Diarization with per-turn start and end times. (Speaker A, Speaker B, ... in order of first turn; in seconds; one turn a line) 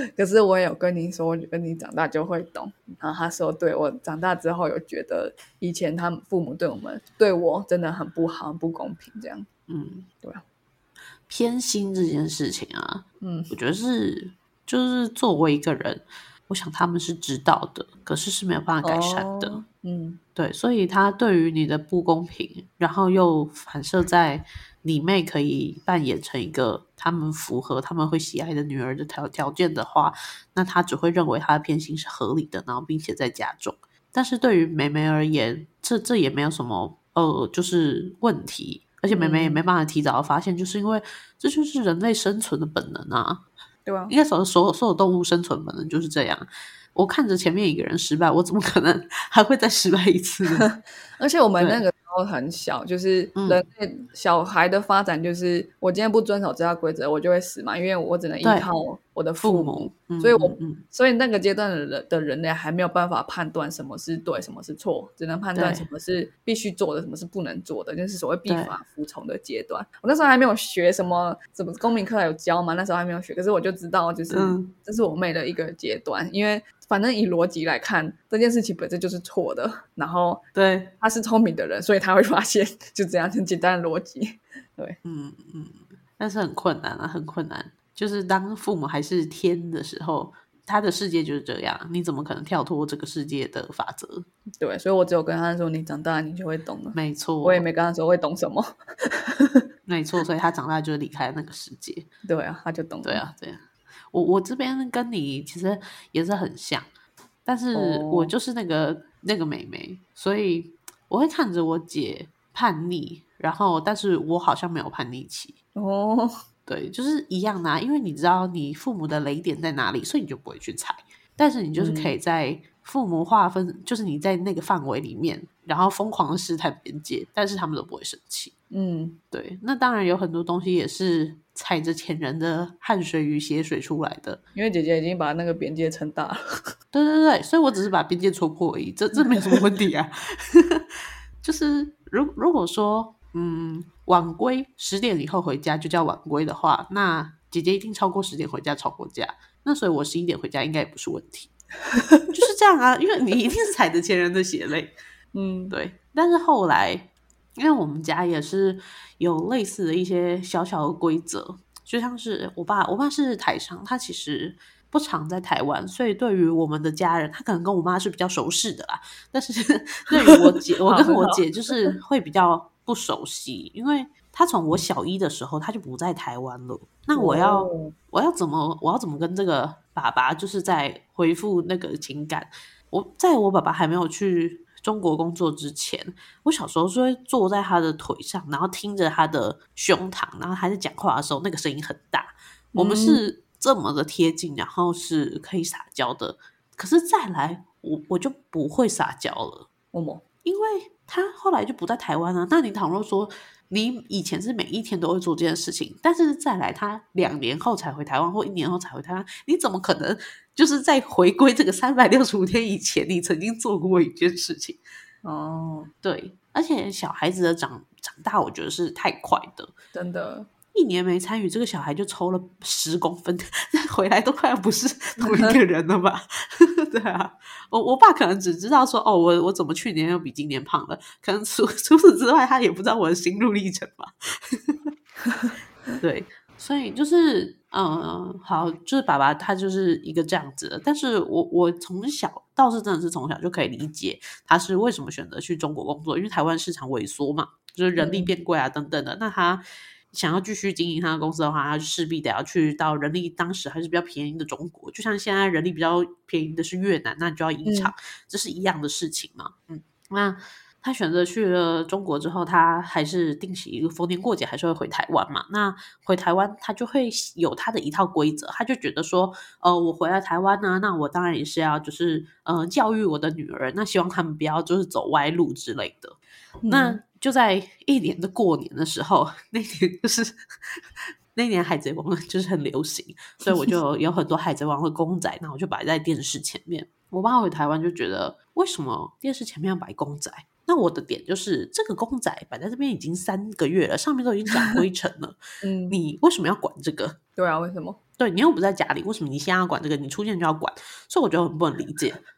Speaker A: 0.1-9.5
Speaker B: 9.7-10.1
Speaker B: 11.3-19.6
Speaker A: 13.2-13.5
Speaker A: 18.8-20.2
Speaker B: 20.4-43.4
Speaker A: 39.1-39.6
Speaker A: 43.9-44.1
Speaker B: 44.1-50.7
Speaker A: 50.6-80.4
Speaker B: 51.6-51.8
Speaker B: 53.3-53.6
Speaker B: 58.4-58.7
Speaker B: 59.4-60.8
Speaker B: 65.5-65.9
Speaker B: 68.5-68.8
Speaker B: 74.3-74.7
Speaker B: 80.5-80.9
Speaker A: 81.0-85.0
Speaker B: 85.0-94.2
Speaker A: 94.6-99.6
Speaker B: 96.9-97.7
Speaker B: 99.9-102.1
Speaker A: 102.2-103.2
Speaker B: 103.0-106.9
Speaker B: 107.4-115.5
Speaker A: 107.7-108.3
Speaker A: 115.8-116.3
Speaker B: 116.7-128.5
Speaker A: 121.8-122.1
Speaker A: 128.7-129.2
Speaker B: 129.3-134.4
Speaker A: 134.5-136.4
Speaker B: 136.9-140.9
Speaker A: 139.2-139.6
Speaker B: 141.4-151.5
Speaker A: 151.9-152.3
Speaker B: 152.3-154.9
Speaker A: 155.3-155.8
Speaker B: 155.7-199.7
Speaker A: 170.1-171.9
Speaker A: 177.1-177.9
Speaker A: 192.7-193.2
Speaker A: 199.9-200.2
Speaker B: 200.4-214.8
Speaker A: 215.2-215.9
Speaker B: 216.0-219.7
Speaker A: 219.9-220.5
Speaker B: 220.7-234.9
Speaker A: 225.2-225.6
Speaker B: 236.0-276.1
Speaker A: 247.9-248.3
Speaker A: 257.6-257.9
Speaker A: 276.6-277.0
Speaker B: 276.7-280.8
Speaker B: 281.3-295.4
Speaker A: 283.4-283.7
Speaker A: 295.6-296.0
Speaker B: 295.9-297.2
Speaker A: 297.4-298.0
Speaker B: 298.2-302.2